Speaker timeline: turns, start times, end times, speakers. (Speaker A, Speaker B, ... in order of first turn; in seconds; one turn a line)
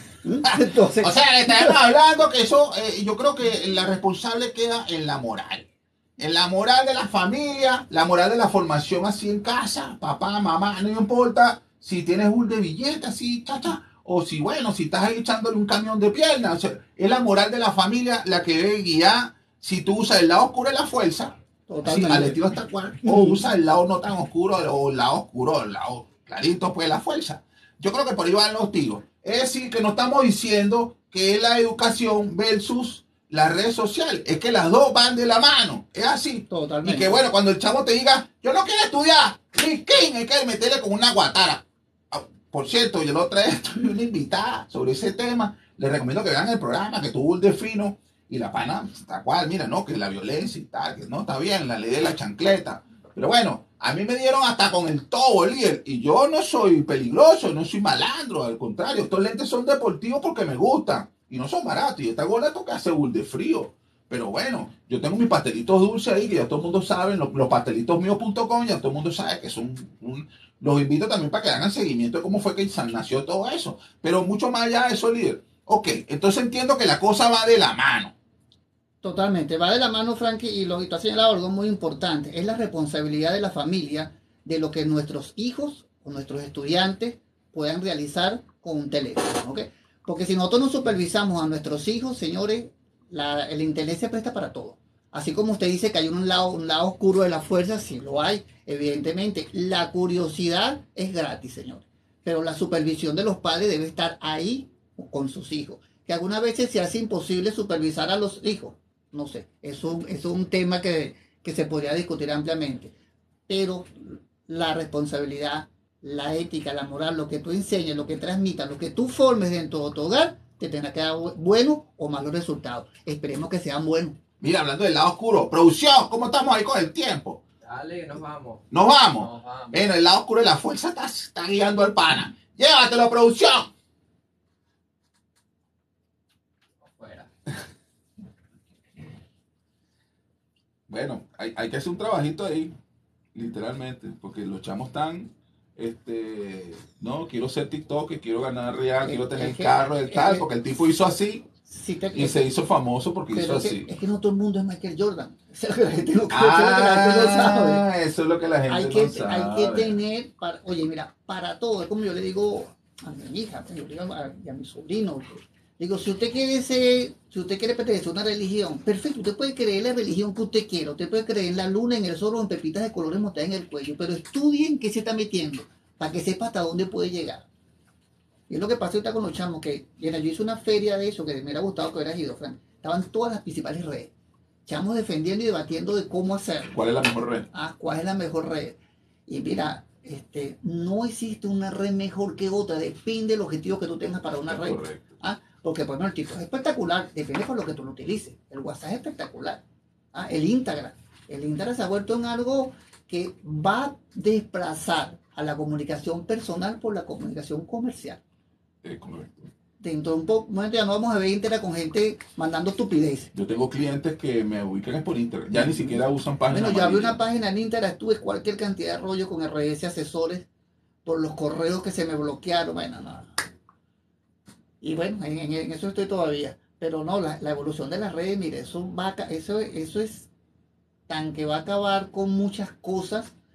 Speaker A: 0.2-1.8
Speaker B: 0.9-78.1
Speaker A: 21.7-22.4
Speaker A: 36.5-37.2
Speaker A: 79.0-112.9
Speaker A: 113.5-124.2
Speaker B: 124.4-127.4
Speaker C: 127.6-129.8
Speaker B: 128.7-133.7
Speaker C: 136.8-137.3
Speaker B: 140.9-142.7
Speaker B: 143.3-151.5
Speaker A: 149.0-150.4
Speaker A: 151.7-152.4
Speaker B: 152.1-153.9
Speaker A: 153.3-157.8
Speaker B: 156.3-160.0
Speaker A: 158.7-177.4
Speaker A: 178.5-184.1
Speaker A: 184.7-186.7
Speaker B: 186.7-187.5
Speaker A: 187.5-199.6
Speaker B: 194.5-195.2
Speaker A: 200.1-208.2
Speaker B: 208.8-209.5
Speaker A: 209.8-213.3
Speaker B: 213.3-217.2
Speaker A: 216.5-220.4
Speaker A: 221.1-223.3
Speaker A: 224.8-230.3
Speaker A: 231.1-233.3